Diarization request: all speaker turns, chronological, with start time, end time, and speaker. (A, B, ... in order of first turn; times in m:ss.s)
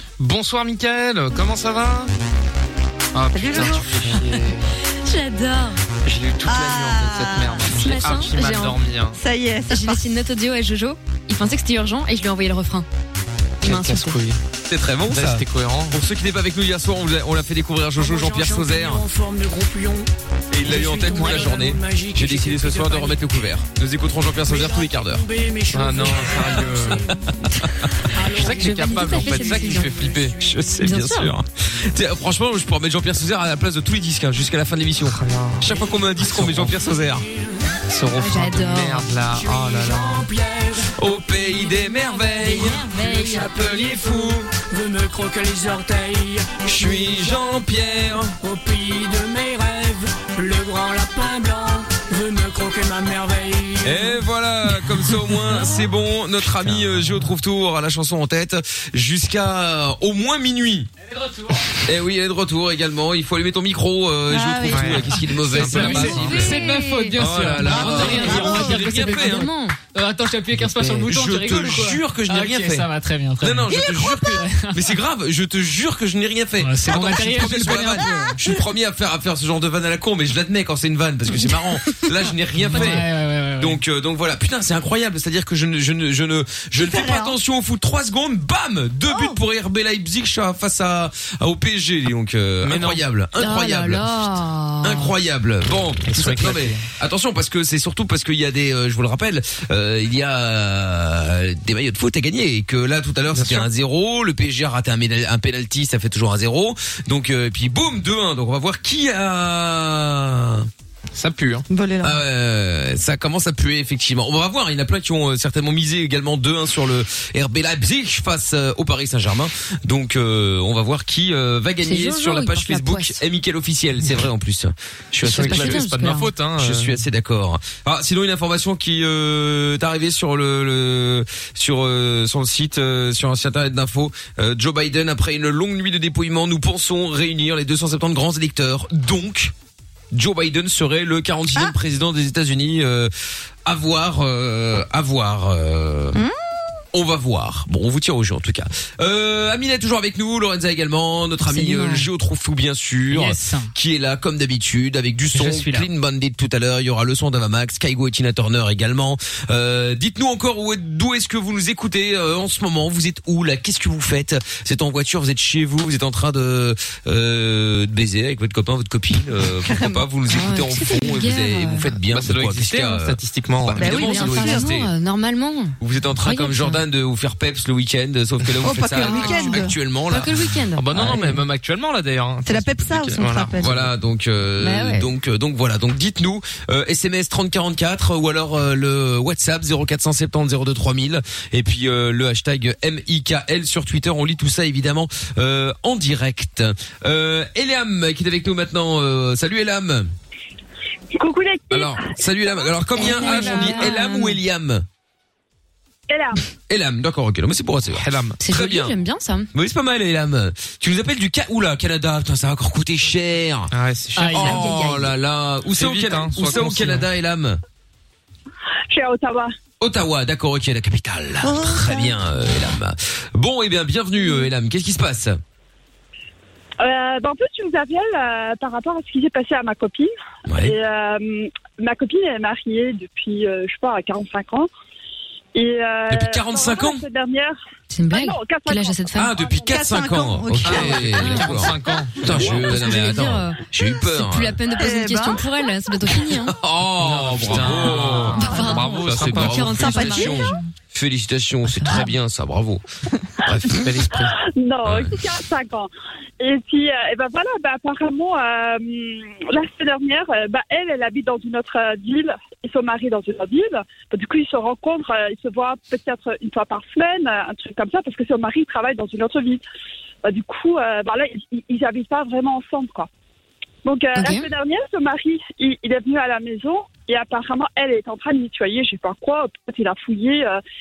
0:00.2-0:02.1 A
0:03.1-0:04.7 A
0:03.3-0:04.2 B
0:05.0-0:05.8 C
0:06.0-0:09.2 A
0:06.4-0:08.3 B
0:07.6-0:08.8 C
0:09.1-0:10.0 B
0:09.7-0:12.9 C
0:13.6-0:14.2 C
0:13.6-0:14.4 A
0:14.7-0:19.0 D
0:15.1-0:16.0 A
0:18.0-0:20.1 E
0:20.5-0:25.2 D
0:20.6-0:23.2 E
0:24.4-0:27.2 E
0:25.7-0:27.0 A
0:27.1-0:28.0 D
0:28.1-0:29.9 E
0:28.3-0:30.4 A
0:28.3-0:29.9 C
0:30.4-0:37.2 D
0:30.8-0:31.3 C
0:35.0-0:36.8 A
0:36.9-0:37.8 E
0:37.9-0:40.2 A
0:38.1-0:39.1 C
0:39.2-0:40.9 E
0:41.0-0:44.5 D
0:42.1-0:47.4 E
0:42.5-0:43.5 C
0:46.6-0:48.3 D
0:48.4-0:54.2 E
0:53.8-1:00.9 D
0:56.6-0:57.2 A
1:01.1-1:01.7 F
1:01.8-1:06.6 D
1:04.3-1:05.1 B
1:04.7-1:05.1 A
1:05.4-1:09.8 C
1:05.4-1:13.8 F
1:07.2-1:09.5 D
1:07.6-1:08.7 B
1:10.7-1:12.9 D
1:13.4-1:23.1 D
1:13.8-1:14.2 B
1:14.3-1:14.9 F
1:16.6-1:18.4 F
1:22.6-1:23.8 F
1:23.6-1:34.0 D
1:26.8-1:27.3 B
1:32.6-1:33.0 A
1:33.4-1:35.1 C
1:34.8-1:50.7 D
1:36.1-1:36.8 A
1:43.3-1:43.6 A
1:51.1-1:51.6 A
1:51.7-1:52.2 B
1:52.0-2:05.8 D
2:01.8-2:03.2 C
2:05.2-2:07.0 A
2:05.2-2:06.3 C
2:06.6-2:19.5 D
2:20.1-2:23.1 D
2:23.6-2:26.2 D
2:26.9-2:54.9 D
2:31.4-2:32.0 C
2:33.1-2:33.7 F
2:35.3-2:35.9 F
2:49.6-2:50.0 B
2:50.3-2:51.9 C
2:52.1-2:53.8 A
2:53.7-2:54.7 B
2:53.8-2:56.8 C
2:55.8-3:00.3 D
2:58.6-2:59.7 B
2:59.0-3:00.8 C
3:00.8-3:03.8 A
3:00.9-3:01.4 D
3:02.4-3:03.8 B
3:03.6-3:20.1 D
3:04.6-3:05.1 C
3:21.1-3:22.7 G
3:21.7-3:24.8 D
3:23.0-3:24.1 B
3:23.0-3:24.3 C
3:26.1-3:26.4 G
3:26.7-3:28.9 D
3:27.9-3:28.4 A
3:28.4-3:29.5 C
3:29.5-3:33.7 D
3:33.7-3:34.9 A
3:34.1-3:34.6 F
3:34.3-3:35.1 C
3:34.3-3:37.6 D
3:35.7-3:37.1 A
3:38.9-3:39.5 G
3:39.8-3:45.4 D
3:41.4-3:42.1 B
3:46.8-3:54.7 G
3:50.5-3:50.7 D
3:55.5-3:57.6 G
3:56.1-3:57.0 D
3:57.9-3:59.3 C
3:58.1-3:59.8 G
3:59.1-4:04.6 D
3:59.6-4:01.5 B
4:00.6-4:02.8 A
4:02.3-4:06.5 C
4:04.8-4:05.4 B
4:06.2-4:12.8 D
4:07.0-4:09.7 A
4:07.9-4:10.6 B
4:08.0-4:10.6 C
4:11.6-4:12.1 C
4:13.4-4:13.8 D
4:13.4-4:14.4 A
4:14.4-4:29.6 G
4:14.8-4:15.2 D
4:30.2-4:33.1 G
4:33.8-4:40.6 G
4:34.2-4:34.4 C